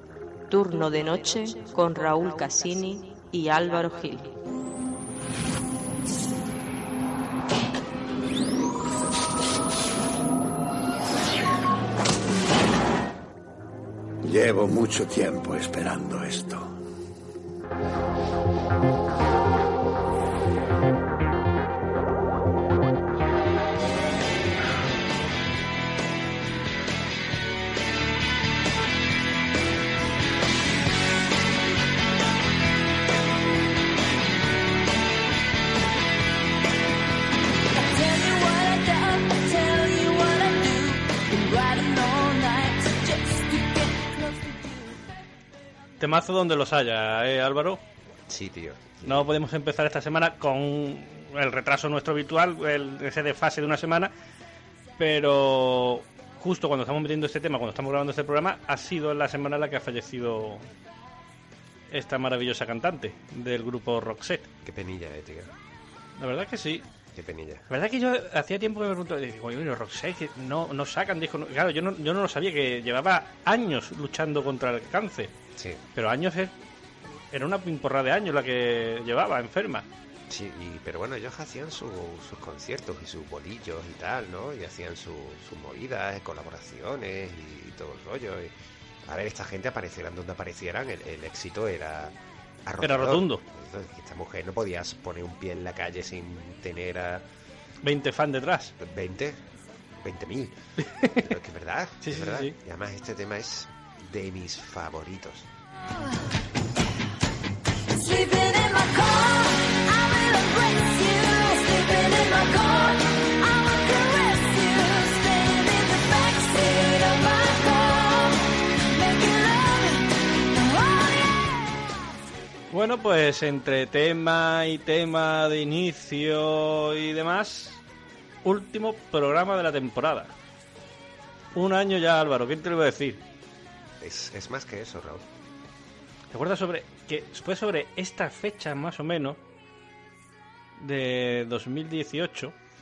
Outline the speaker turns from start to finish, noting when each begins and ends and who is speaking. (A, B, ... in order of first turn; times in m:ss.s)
0:00.5-0:04.3 A
0:14.2-0:16.7 B
0:37.7-0:45.0 C
0:46.0-0:47.8 D
0:48.3-0:49.3 E
0:49.0-0:54.1 D
0:55.0-1:00.7 D
1:01.9-1:04.5 D
1:04.6-1:05.5 E
1:06.2-1:06.8 D
1:07.1-1:07.6 E
1:07.7-1:15.3 D
1:15.6-1:15.8 E
1:15.9-1:16.5 D
1:17.3-1:19.9 D
1:20.3-1:28.5 E
1:29.1-1:32.1 E
1:32.6-1:37.2 E
1:32.8-1:33.4 D
1:37.8-1:38.7 D
1:38.8-1:39.4 E
1:40.0-1:40.5 E
1:40.8-1:41.3 D
1:41.2-1:45.5 E
1:42.0-1:42.6 D
1:47.9-2:01.8 C
2:02.7-2:07.8 D
2:08.4-2:10.3 D
2:11.5-2:13.2 D
2:14.0-2:15.2 E
2:16.3-2:19.4 D
2:20.8-2:22.5 D